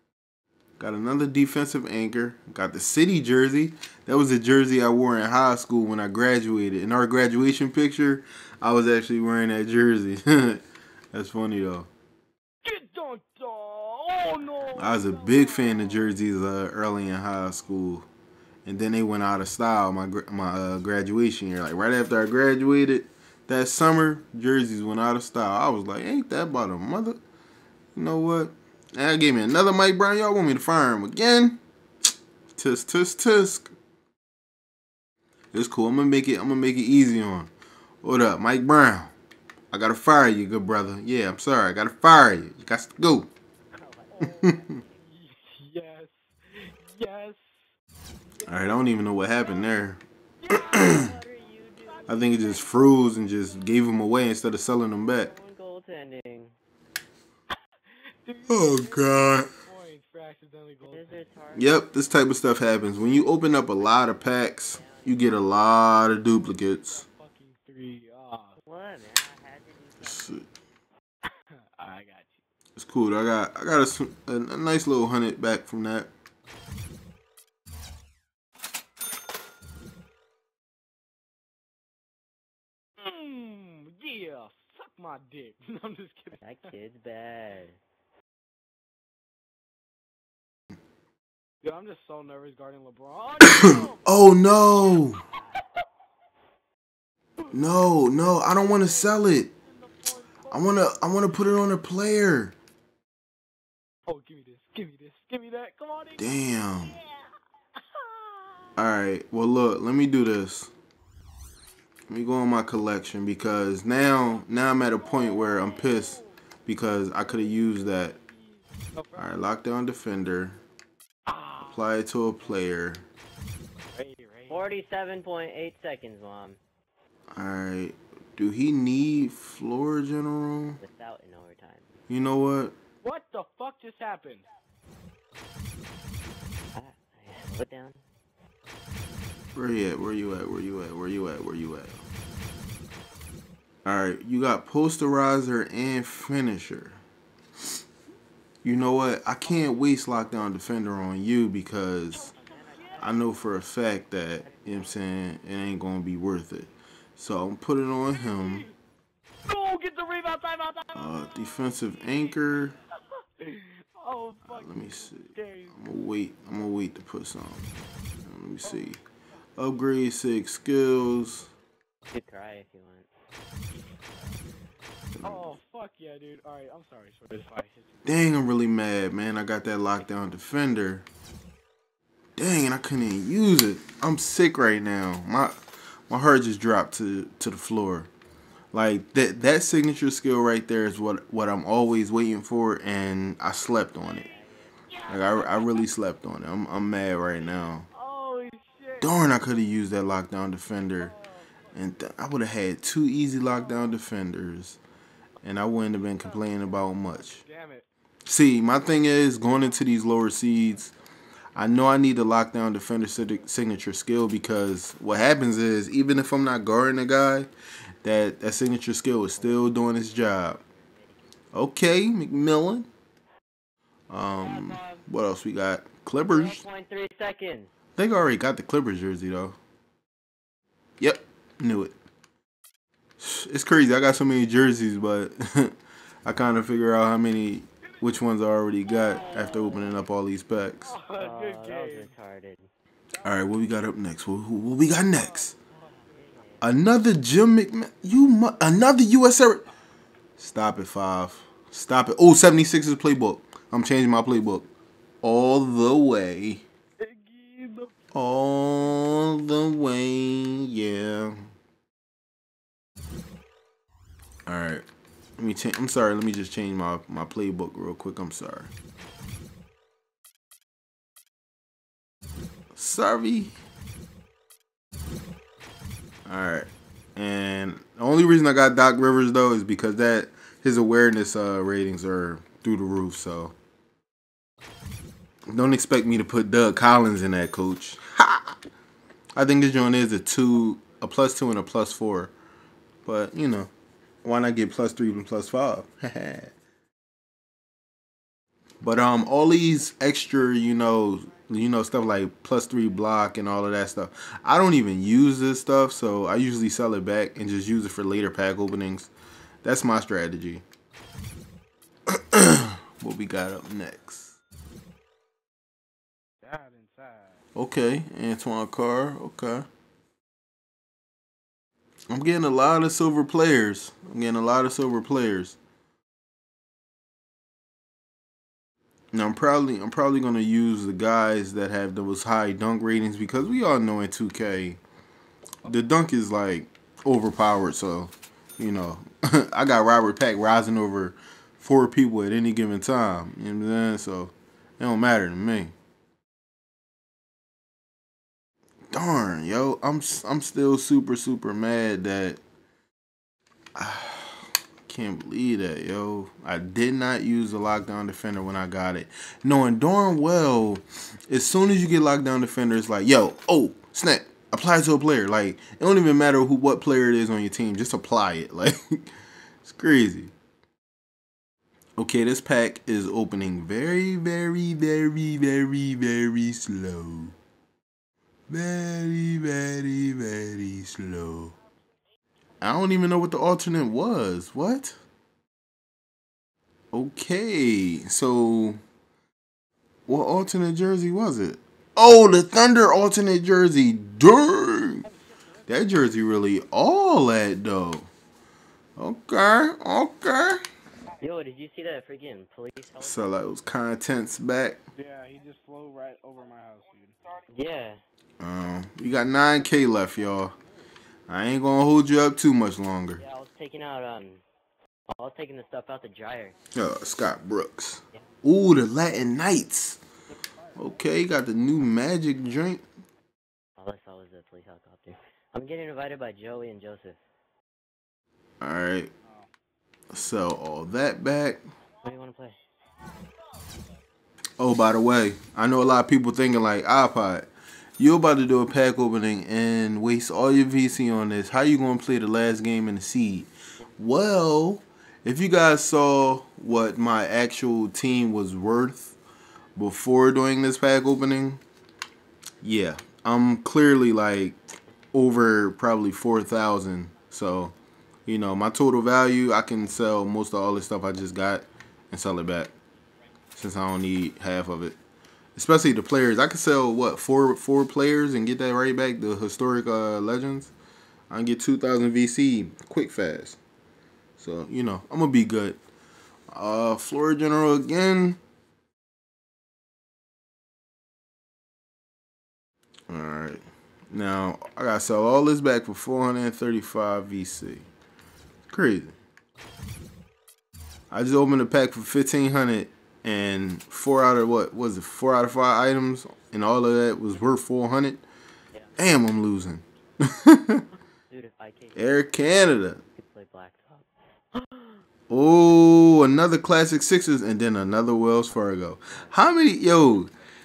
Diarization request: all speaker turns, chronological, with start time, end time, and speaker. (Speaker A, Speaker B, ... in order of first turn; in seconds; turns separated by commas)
Speaker A: 0.8-11.9, Speaker B: 12.6-16.1, Speaker A: 14.7-18.1, Speaker A: 18.6-27.2, Speaker A: 27.9-31.6, Speaker A: 32.5-33.7, Speaker A: 35.5-37.5, Speaker A: 38.0-39.1, Speaker A: 39.7-43.3, Speaker C: 43.7-45.0, Speaker A: 44.2-44.8, Speaker B: 45.0-47.7, Speaker A: 48.5-50.0, Speaker C: 50.4-52.7, Speaker A: 50.6-51.1, Speaker B: 51.9-52.9, Speaker A: 52.1-55.3, Speaker C: 55.0-56.5, Speaker B: 58.2-61.3, Speaker A: 58.5-59.5, Speaker C: 60.8-62.3, Speaker A: 61.5-67.0, Speaker C: 63.8-65.6, Speaker B: 66.1-68.6, Speaker C: 68.6-70.4, Speaker A: 70.0-70.4, Speaker B: 71.8-72.4, Speaker A: 72.8-76.1, Speaker B: 83.0-86.4, Speaker C: 86.4-87.8, Speaker B: 91.6-94.0, Speaker A: 93.5-95.2, Speaker B: 97.4-101.1, Speaker A: 97.5-99.5, Speaker A: 100.5-102.5, Speaker B: 104.1-106.4, Speaker A: 106.2-107.0, Speaker B: 106.9-107.2, Speaker B: 107.8-108.7, Speaker A: 108.8-110.7, Speaker A: 112.1-118.2, Speaker B: 114.7-116.3, Speaker B: 117.2-118.3, Speaker B: 118.9-119.4, Speaker A: 119.2-120.6, Speaker B: 121.3-121.9, Speaker A: 121.7-123.0, Speaker B: 123.9-124.7, Speaker C: 124.5-126.6, Speaker A: 127.3-130.8, Speaker C: 130.8-131.9, Speaker A: 132.1-132.7, Speaker B: 133.0-134.5, Speaker C: 136.7-138.0, Speaker A: 139.5-142.0, Speaker A: 143.8-146.9, Speaker A: 148.6-152.3, Speaker C: 152.2-155.0, Speaker A: 153.0-158.7, Speaker B: 158.1-158.7, Speaker B: 159.4-161.4, Speaker A: 160.9-162.8, Speaker B: 163.4-165.8, Speaker A: 164.5-167.7, Speaker A: 168.2-169.0, Speaker B: 168.6-169.0, Speaker A: 169.6-171.5, Speaker C: 172.1-173.1, Speaker A: 175.1-175.6, Speaker B: 175.2-178.0, Speaker A: 178.0-181.0, Speaker A: 182.4-185.5, Speaker A: 186.1-188.1, Speaker A: 188.7-194.3, Speaker C: 193.9-194.7, Speaker B: 194.9-195.7, Speaker A: 195.1-197.9, Speaker B: 197.9-199.2, Speaker A: 199.0-201.1, Speaker B: 201.0-201.5, Speaker A: 201.7-204.8, Speaker A: 205.4-207.4, Speaker B: 206.2-207.9, Speaker A: 208.2-210.9, Speaker A: 211.6-217.5, Speaker A: 218.0-220.6, Speaker C: 219.3-221.2, Speaker A: 221.5-222.9, Speaker A: 224.1-226.6, Speaker C: 224.4-225.0, Speaker C: 226.2-227.7, Speaker A: 228.0-229.6, Speaker A: 231.0-231.9, Speaker A: 233.2-240.9, Speaker B: 238.9-239.8, Speaker B: 240.8-242.1, Speaker C: 241.2-242.7, Speaker A: 243.2-245.5, Speaker C: 246.1-246.6, Speaker A: 246.6-249.6, Speaker A: 250.4-254.7, Speaker A: 255.2-256.6, Speaker B: 257.0-257.9, Speaker A: 258.1-261.4, Speaker A: 264.5-264.8, Speaker A: 265.4-268.7, Speaker A: 272.7-273.5, Speaker A: 276.2-283.5, Speaker A: 285.5-288.6, Speaker A: 289.4-292.3, Speaker A: 293.1-293.7, Speaker A: 294.2-296.5, Speaker A: 298.8-309.1, Speaker A: 309.6-310.6, Speaker A: 312.1-314.3, Speaker B: 316.4-317.4, Speaker A: 317.5-319.6, Speaker A: 322.1-325.6, Speaker A: 329.1-334.8, Speaker A: 335.6-345.7, Speaker A: 348.9-352.4, Speaker A: 353.7-369.1, Speaker A: 369.6-370.3, Speaker A: 372.0-377.3, Speaker A: 378.5-381.5, Speaker A: 382.6-384.9, Speaker A: 386.9-388.8, Speaker A: 390.1-395.1, Speaker A: 395.7-398.1, Speaker A: 399.0-400.6, Speaker C: 401.2-403.4, Speaker A: 403.0-404.8, Speaker B: 404.9-407.2, Speaker C: 407.5-408.0, Speaker A: 408.4-410.5, Speaker A: 411.3-413.2, Speaker C: 413.2-414.4, Speaker C: 415.1-416.6, Speaker A: 416.7-420.0, Speaker A: 420.8-422.8, Speaker C: 423.8-427.2, Speaker A: 428.6-429.1, Speaker A: 430.1-431.6, Speaker C: 432.0-432.6, Speaker A: 434.6-437.5, Speaker A: 438.0-449.1, Speaker A: 449.8-451.6, Speaker A: 452.6-454.6, Speaker A: 455.1-457.7, Speaker A: 458.2-462.7, Speaker A: 463.6-465.0, Speaker A: 465.6-470.7, Speaker A: 471.3-473.6, Speaker A: 474.4-475.8, Speaker A: 476.5-478.4, Speaker A: 483.1-487.9, Speaker A: 488.7-489.1, Speaker A: 491.1-498.2, Speaker A: 499.0-500.8, Speaker C: 501.3-502.3, Speaker A: 501.9-503.0, Speaker C: 503.0-504.1, Speaker A: 505.3-510.3